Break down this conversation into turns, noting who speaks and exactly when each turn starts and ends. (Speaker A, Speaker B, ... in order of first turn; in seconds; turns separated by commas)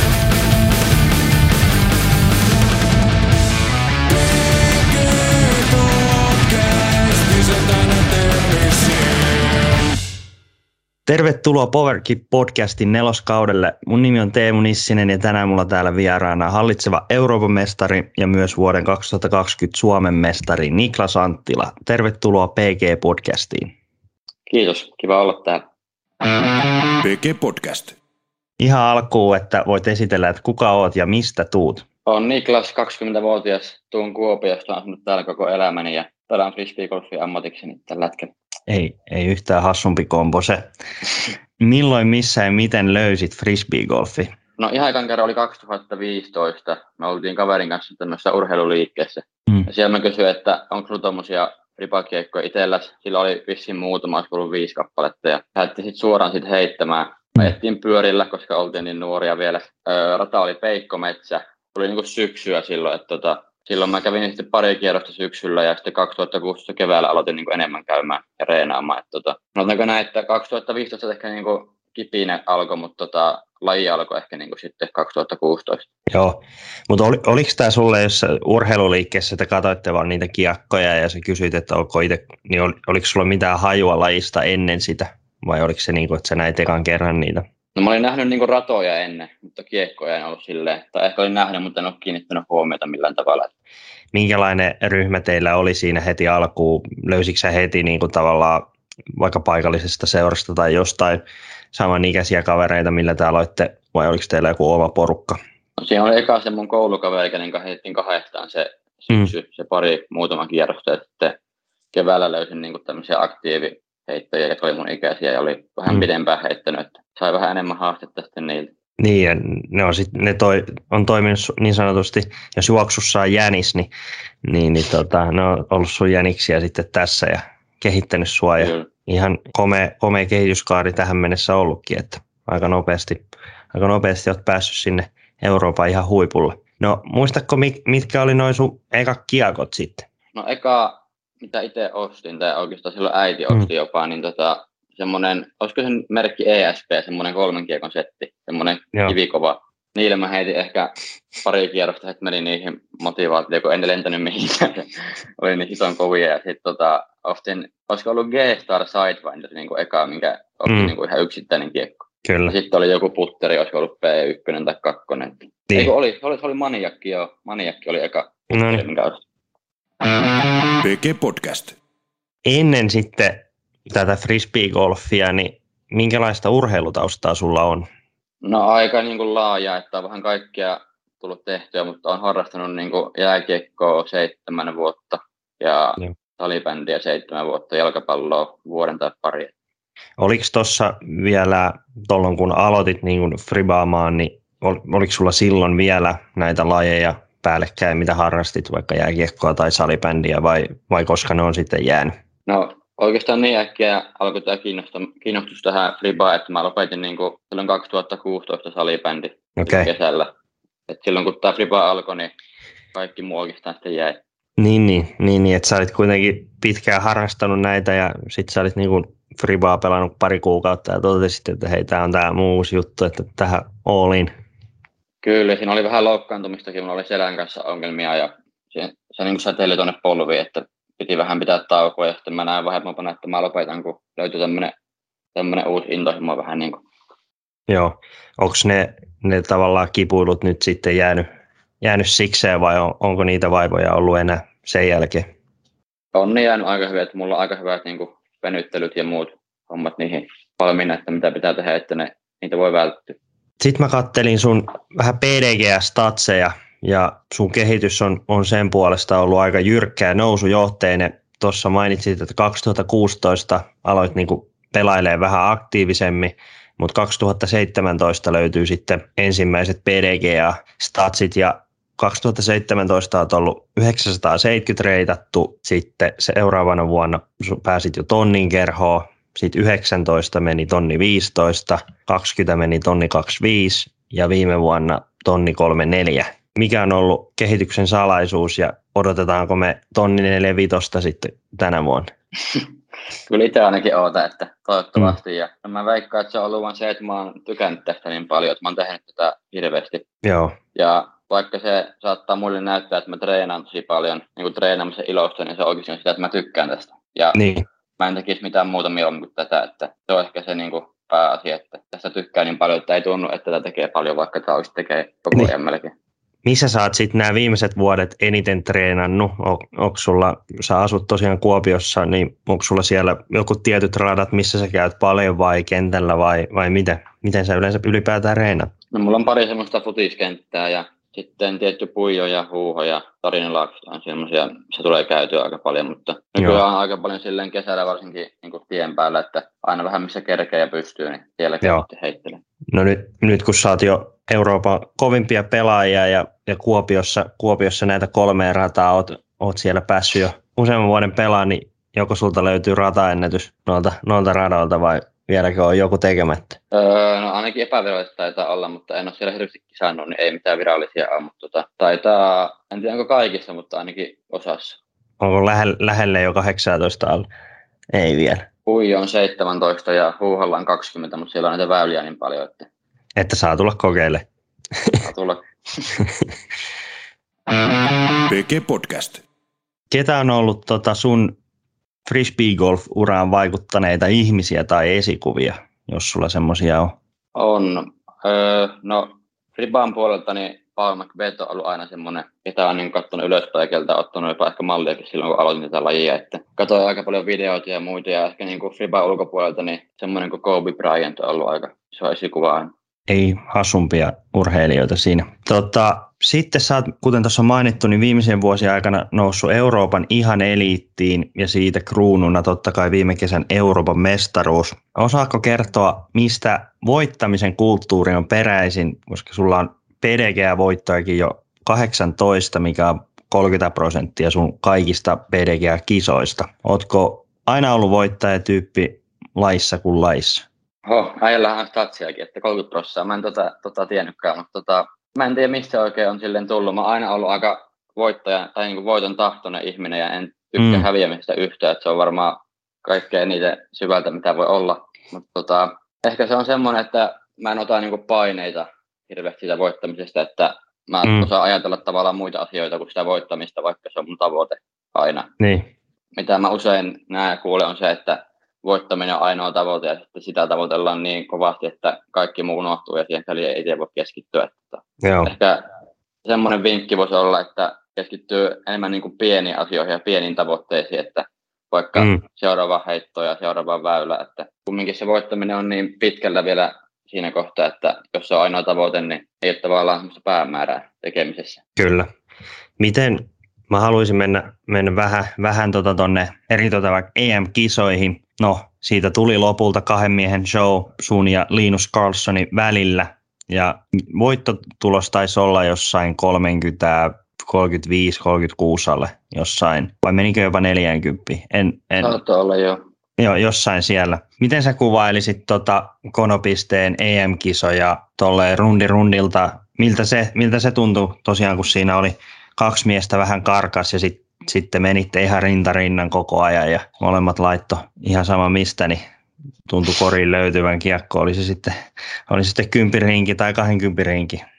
Speaker A: 4.1-9.9, Speaker B: 11.1-23.7, Speaker C: 24.5-25.6, Speaker A: 27.0-27.9, Speaker B: 28.6-31.8, Speaker C: 32.0-38.3, Speaker B: 38.7-40.7, Speaker B: 41.6-44.3, Speaker C: 44.6-75.9, Speaker B: 76.1-87.4, Speaker C: 87.8-93.5, Speaker B: 94.1-105.4, Speaker C: 105.8-111.3, Speaker C: 111.9-118.7, Speaker B: 119.0-123.9, Speaker B: 124.4-140.1, Speaker C: 128.6-128.9, Speaker C: 140.3-150.9, Speaker C: 151.4-169.2, Speaker B: 160.7-160.9, Speaker B: 162.2-162.5, Speaker B: 168.5-168.8, Speaker A: 170.8-171.7, Speaker B: 172.4-177.9, Speaker C: 178.4-189.5, Speaker B: 190.2-202.1, Speaker C: 202.5-210.3, Speaker B: 209.6-209.9, Speaker C: 210.9-212.3, Speaker C: 212.9-214.2, Speaker B: 214.6-224.3, Speaker C: 225.2-234.7, Speaker C: 235.3-236.8, Speaker B: 237.7-241.3, Speaker B: 241.8-245.2, Speaker C: 246.1-253.2, Speaker B: 253.6-292.1, Speaker C: 293.3-300.0, Speaker B: 300.2-300.5, Speaker C: 300.7-307.4, Speaker B: 307.3-307.6, Speaker C: 308.0-315.9, Speaker B: 316.4-328.7, Speaker C: 328.9-342.4, Speaker B: 342.7-356.6, Speaker C: 356.7-364.8, Speaker B: 365.2-367.3, Speaker B: 367.9-368.4, Speaker C: 368.6-372.7, Speaker B: 373.1-374.2, Speaker C: 375.0-376.0, Speaker B: 376.0-376.3, Speaker A: 378.3-379.2, Speaker B: 379.9-381.3, Speaker B: 382.1-386.9, Speaker C: 387.3-402.7, Speaker B: 403.1-430.4, Speaker C: 430.9-455.3, Speaker B: 440.6-440.9, Speaker B: 455.4-455.7, Speaker C: 456.2-465.6, Speaker B: 465.0-465.3, Speaker C: 466.2-481.6, Speaker B: 472.0-472.2, Speaker B: 481.8-482.1, Speaker B: 482.8-502.2, Speaker C: 502.0-502.8, Speaker B: 503.2-519.0, Speaker B: 519.7-521.7, Speaker B: 522.3-524.4